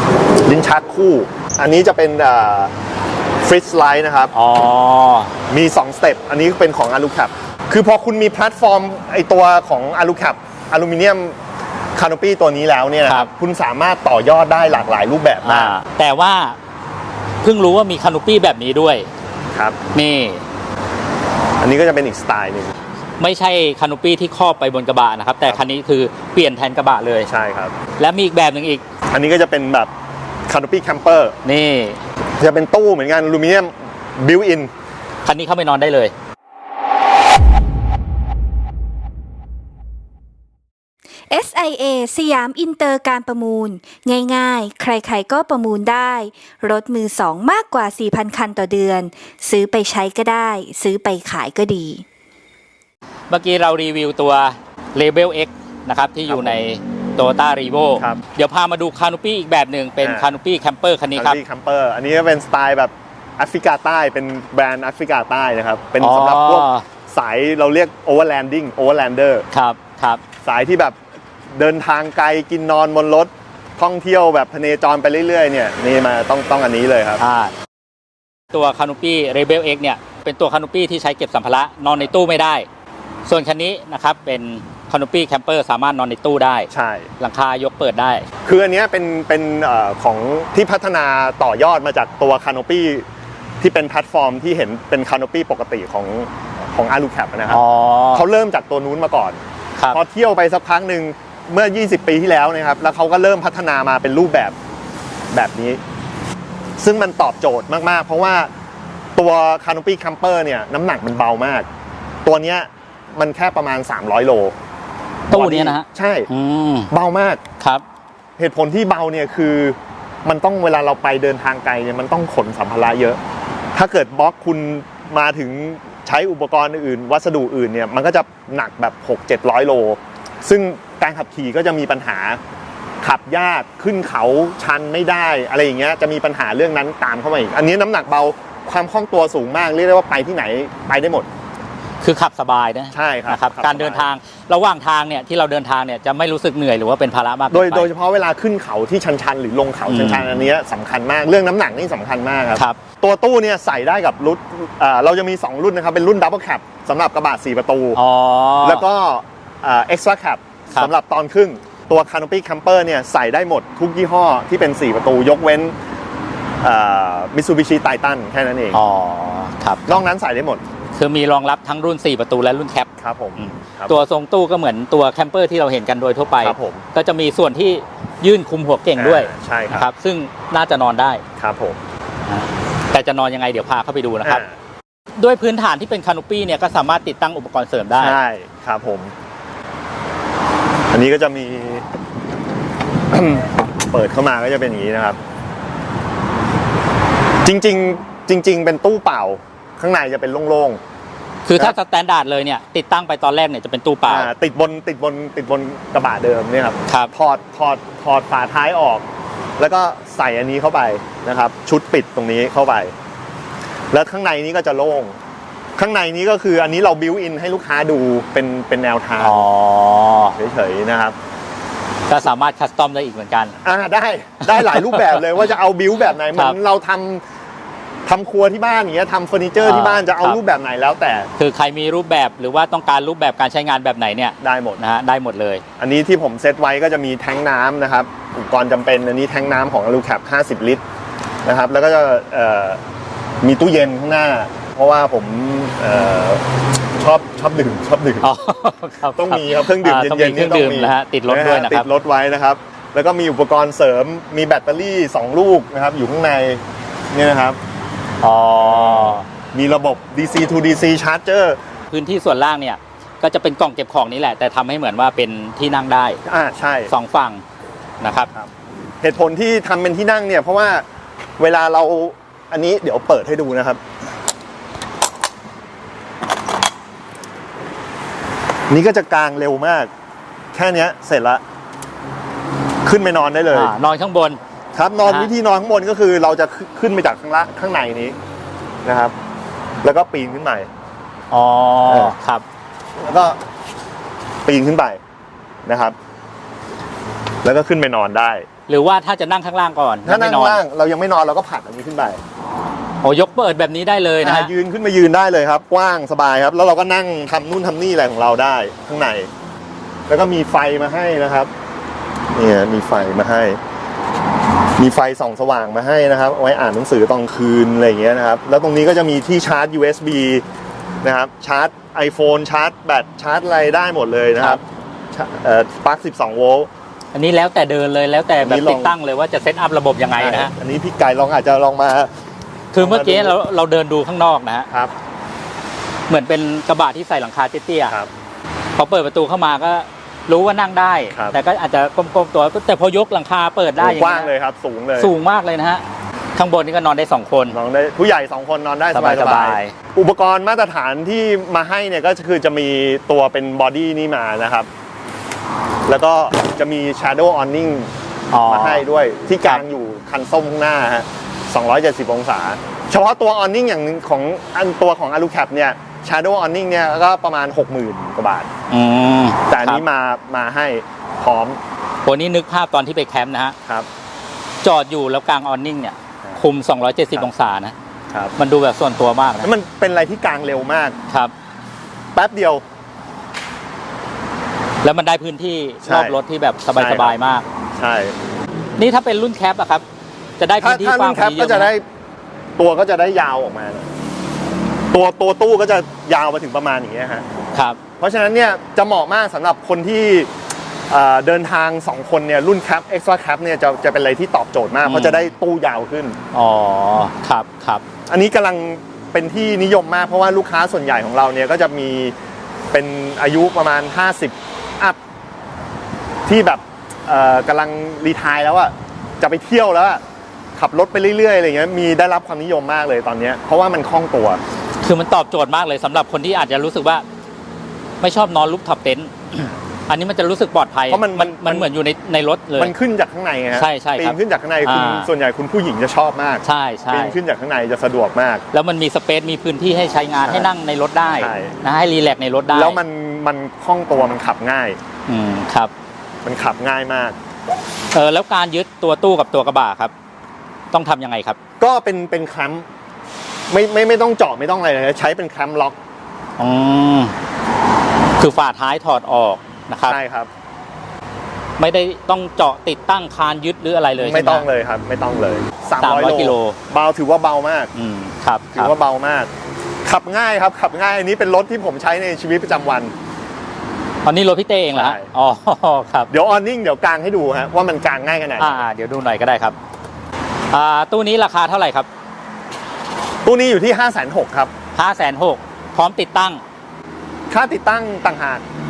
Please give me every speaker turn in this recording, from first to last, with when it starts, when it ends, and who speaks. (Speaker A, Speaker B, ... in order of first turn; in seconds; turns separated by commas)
Speaker A: 0.4-2.7, Speaker A: 3.4-4.3, Speaker B: 4.3-5.4, Speaker A: 5.5-11.4, Speaker A: 11.9-15.8, Speaker B: 15.4-16.6, Speaker B: 17.4-19.1, Speaker B: 19.9-20.4, Speaker A: 21.6-22.8, Speaker B: 23.2-27.3, Speaker A: 27.3-27.7, Speaker B: 28.0-28.8, Speaker A: 29.1-29.9, Speaker A: 30.5-31.4, Speaker B: 31.4-32.0, Speaker A: 32.4-34.7, Speaker B: 35.2-36.1, Speaker C: 41.3-52.0, Speaker B: 53.3-61.4, Speaker A: 56.3-56.6, Speaker A: 60.0-60.3, Speaker A: 61.1-69.5, Speaker B: 66.0-66.9, Speaker B: 69.5-70.2, Speaker A: 70.4-71.0, Speaker A: 71.5-77.2, Speaker B: 77.2-77.5, Speaker B: 78.5-82.7, Speaker B: 83.3-88.3, Speaker A: 86.7-87.1, Speaker A: 88.5-93.0, Speaker A: 93.6-99.4, Speaker B: 97.5-98.2, Speaker A: 99.9-104.5, Speaker A: 105.3-105.8, Speaker A: 106.8-108.5, Speaker A: 109.2-111.7, Speaker A: 112.2-114.5, Speaker B: 115.3-116.9, Speaker A: 115.3-116.3, Speaker A: 116.9-117.4, Speaker A: 118.4-123.2, Speaker A: 123.7-132.4, Speaker A: 133.0-141.3, Speaker B: 142.0-147.9, Speaker A: 142.9-144.1, Speaker A: 147.5-158.0, Speaker B: 149.9-150.5, Speaker B: 157.9-158.9, Speaker A: 158.6-165.7, Speaker A: 166.6-168.8, Speaker B: 168.7-170.0, Speaker A: 169.9-170.6, Speaker B: 171.0-181.2, Speaker A: 173.0-174.0, Speaker A: 176.4-176.8, Speaker A: 179.0-179.9, Speaker A: 181.4-181.8, Speaker B: 182.3-184.4, Speaker A: 184.2-184.6, Speaker B: 185.2-188.2, Speaker A: 188.0-189.1, Speaker A: 190.9-191.8, Speaker A: 193.1-195.2, Speaker A: 197.4-200.8, Speaker B: 201.4-204.3, Speaker A: 204.1-209.1, Speaker A: 209.6-212.9, Speaker A: 213.9-215.2, Speaker A: 215.8-219.5, Speaker B: 219.2-220.4, Speaker A: 220.3-221.2, Speaker B: 222.1-223.6, Speaker A: 223.6-227.2, Speaker B: 224.4-225.2, Speaker A: 228.1-231.3, Speaker B: 229.6-230.4, Speaker B: 231.4-235.6, Speaker A: 234.4-234.8, Speaker A: 235.8-240.8, Speaker A: 241.4-242.8, Speaker A: 243.4-246.4, Speaker A: 247.0-248.3, Speaker B: 248.2-251.9, Speaker A: 249.2-257.6, Speaker B: 258.2-259.3, Speaker A: 258.6-261.6, Speaker B: 261.9-266.2, Speaker A: 266.3-266.9, Speaker B: 266.9-267.4, Speaker B: 268.0-268.3, Speaker A: 269.0-270.8, Speaker A: 271.4-273.8, Speaker A: 278.7-279.9, Speaker A: 280.5-281.4, Speaker A: 282.8-283.7, Speaker B: 283.5-284.4, Speaker A: 284.8-288.2, Speaker B: 285.0-285.3, Speaker A: 288.9-289.1, Speaker A: 289.8-290.7, Speaker B: 291.3-292.4, Speaker A: 291.9-292.2, Speaker A: 293.0-293.4, Speaker A: 294.4-295.0, Speaker A: 295.7-295.9, Speaker A: 297.4-298.5, Speaker B: 298.7-300.6, Speaker A: 300.1-302.2, Speaker B: 303.0-304.5, Speaker A: 304.2-309.3, Speaker A: 310.1-311.5, Speaker A: 312.3-313.6, Speaker A: 314.8-320.4, Speaker A: 321.0-324.6, Speaker A: 325.1-326.7, Speaker B: 327.1-330.5, Speaker A: 328.4-328.9, Speaker A: 330.2-332.1, Speaker B: 332.7-334.7, Speaker A: 332.8-333.4, Speaker B: 336.1-338.0, Speaker B: 338.8-344.3, Speaker A: 341.1-341.4, Speaker A: 343.8-345.1, Speaker B: 345.0-345.8, Speaker B: 346.4-347.6, Speaker A: 347.5-354.7, Speaker B: 348.9-349.7, Speaker A: 355.9-357.9, Speaker B: 358.3-358.8, Speaker A: 358.5-368.5, Speaker B: 368.7-369.8, Speaker A: 369.5-371.6, Speaker B: 372.1-373.6, Speaker B: 374.6-377.7, Speaker B: 378.4-379.5, Speaker A: 379.4-381.0, Speaker A: 382.1-382.6, Speaker B: 384.8-387.5, Speaker A: 385.8-386.2, Speaker A: 386.8-387.2, Speaker A: 387.8-388.2, Speaker B: 388.8-389.8, Speaker B: 390.4-391.7, Speaker A: 390.6-391.8, Speaker A: 392.6-393.9, Speaker A: 394.9-397.2, Speaker B: 397.5-397.8, Speaker A: 398.0-400.3, Speaker A: 400.9-406.2, Speaker B: 404.9-405.3, Speaker B: 406.3-407.8, Speaker A: 408.1-412.1, Speaker A: 412.7-415.0, Speaker A: 416.3-420.0, Speaker A: 420.6-424.4, Speaker B: 424.8-427.1, Speaker B: 428.0-432.7, Speaker A: 430.9-431.7, Speaker A: 432.6-438.4, Speaker B: 433.6-435.1, Speaker B: 436.4-437.2, Speaker B: 438.5-442.8, Speaker A: 440.2-440.5, Speaker A: 441.1-441.6, Speaker A: 442.5-444.8, Speaker B: 445.1-445.7, Speaker A: 446.2-447.2, Speaker B: 447.9-449.9, Speaker B: 450.7-451.4, Speaker A: 451.6-452.7, Speaker A: 453.5-455.8, Speaker B: 456.4-457.1, Speaker B: 458.2-460.0, Speaker A: 459.9-460.3, Speaker B: 461.6-464.5, Speaker A: 464.0-467.7, Speaker B: 465.8-466.6, Speaker B: 467.8-468.7, Speaker A: 468.6-469.3, Speaker A: 469.9-472.9, Speaker B: 474.0-476.1, Speaker A: 474.7-475.1, Speaker A: 476.1-478.6, Speaker B: 478.4-479.6, Speaker B: 480.5-481.9, Speaker A: 483.2-484.5, Speaker B: 484.8-486.4, Speaker A: 487.3-488.4